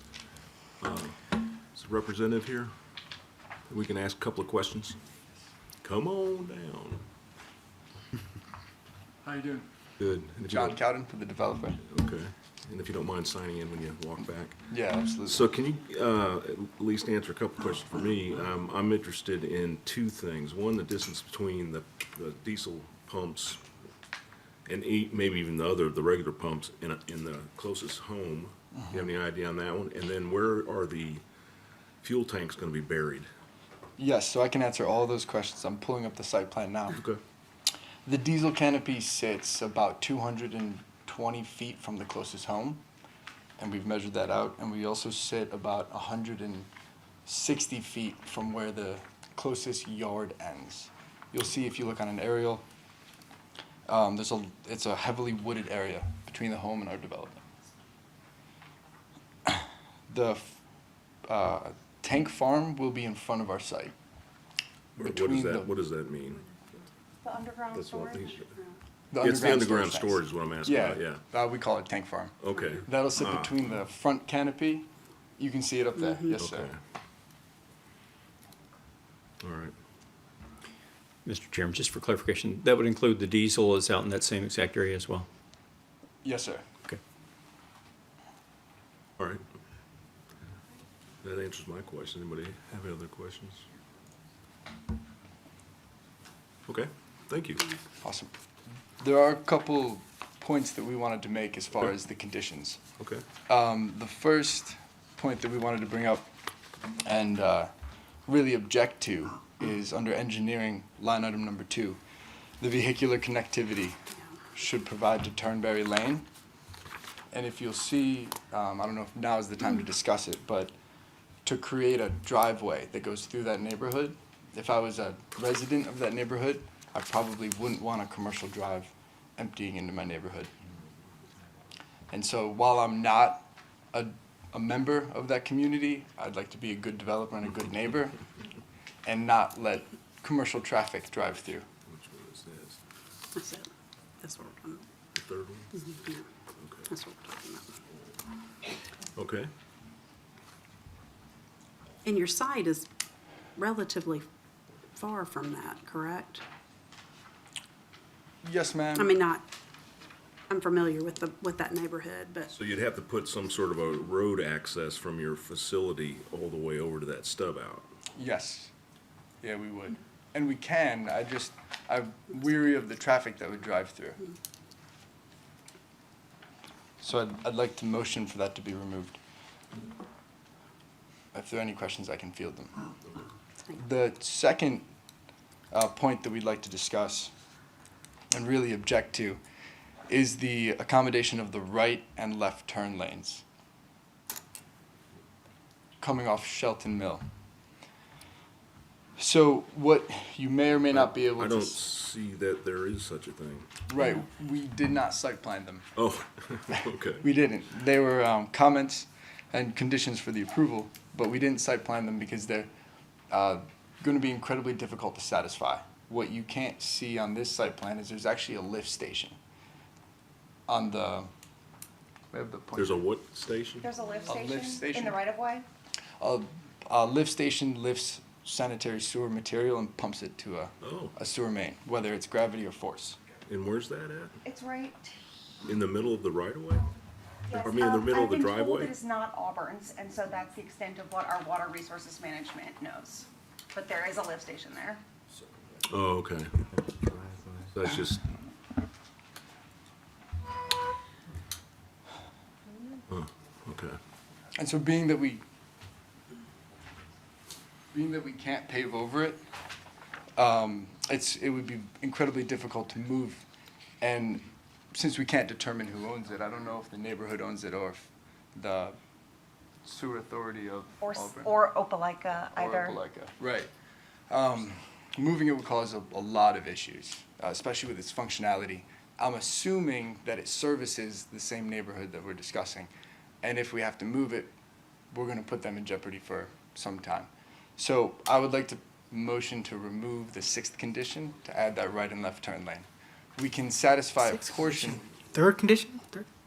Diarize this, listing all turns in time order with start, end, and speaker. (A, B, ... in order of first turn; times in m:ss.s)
0:00.8-0:01.2 A
0:01.7-0:02.7 A
0:03.7-0:05.0 A
0:05.8-0:07.0 A
0:09.2-0:09.7 B
0:10.0-0:10.8 A
0:10.4-0:11.8 B
0:11.9-0:14.6 A
0:14.7-0:15.5 B
0:15.2-0:23.6 A
0:24.7-0:31.2 A
0:32.0-0:33.3 A
0:34.0-0:37.0 B
0:36.9-0:37.2 A
0:38.0-0:42.8 B
0:43.6-0:46.7 B
0:47.3-0:52.6 B
0:53.9-0:57.5 B
0:59.5-1:00.6 B
1:01.3-1:04.0 B
1:05.0-1:06.5 A
1:05.0-1:05.7 B
1:07.2-1:08.3 C
1:07.7-1:08.5 A
1:09.1-1:14.9 B
1:09.2-1:11.2 A
1:12.4-1:13.6 A
1:15.4-1:16.7 B
1:16.0-1:16.3 D
1:16.3-1:16.8 A
1:19.4-1:19.7 A
1:21.2-1:25.3 E
1:26.2-1:26.6 B
1:31.2-1:33.6 A
1:36.7-1:37.7 A
1:38.0-1:38.3 B
1:39.0-1:42.8 B
1:43.0-1:43.2 A
1:43.5-1:46.3 B
1:47.0-1:47.7 B
1:48.3-1:52.0 B
1:52.6-1:54.0 B
1:54.5-1:56.3 B
1:57.3-2:00.7 B
2:01.4-2:10.5 B
2:12.1-2:18.2 B
2:19.0-2:21.7 B
2:21.9-2:22.8 A
2:23.4-2:23.7 D
2:24.2-2:24.8 D
2:25.2-2:25.8 A
2:25.8-2:26.2 D
2:26.6-2:26.9 A
2:26.9-2:27.7 D
2:29.2-2:29.5 A
2:32.0-2:32.9 D
2:33.6-2:34.3 D
2:34.9-2:36.4 D
2:38.4-2:39.2 B
2:39.0-2:39.4 D
2:40.5-2:42.5 D
2:42.5-2:47.9 A
2:48.2-2:48.7 B
2:49.4-2:54.3 B
2:57.0-2:59.2 B
3:01.3-3:02.8 B
3:03.7-3:04.8 B
3:05.7-3:07.3 B
3:08.3-3:09.4 B
3:10.1-3:13.4 B
3:16.0-3:17.2 B
3:19.2-3:21.8 B
3:20.9-3:23.7 A
3:23.9-3:25.9 B
3:26.0-3:27.3 A
3:27.2-3:32.7 B
3:33.3-3:39.4 B
3:40.7-3:41.3 B
3:42.3-3:43.0 B
3:42.8-3:43.9 A
3:43.8-3:45.7 C
3:44.3-3:45.2 B
3:46.2-3:53.2 B
3:50.8-3:51.1 A
3:53.5-3:54.4 A
3:54.4-3:55.2 C
3:55.7-3:56.9 A
3:57.5-4:05.0 C
3:57.5-3:59.0 A
4:05.9-4:06.5 A
4:07.7-4:08.3 A
4:13.1-4:14.0 A
4:14.6-4:15.4 B
4:17.9-4:19.4 B
4:20.4-4:23.4 B
4:24.0-4:29.0 B
4:29.8-4:31.6 B
4:31.0-4:33.0 C
4:32.6-4:33.7 B
4:34.3-4:42.9 B
4:43.4-4:44.5 B
4:45.1-4:52.8 B
4:53.4-4:55.0 B
4:54.6-4:56.2 E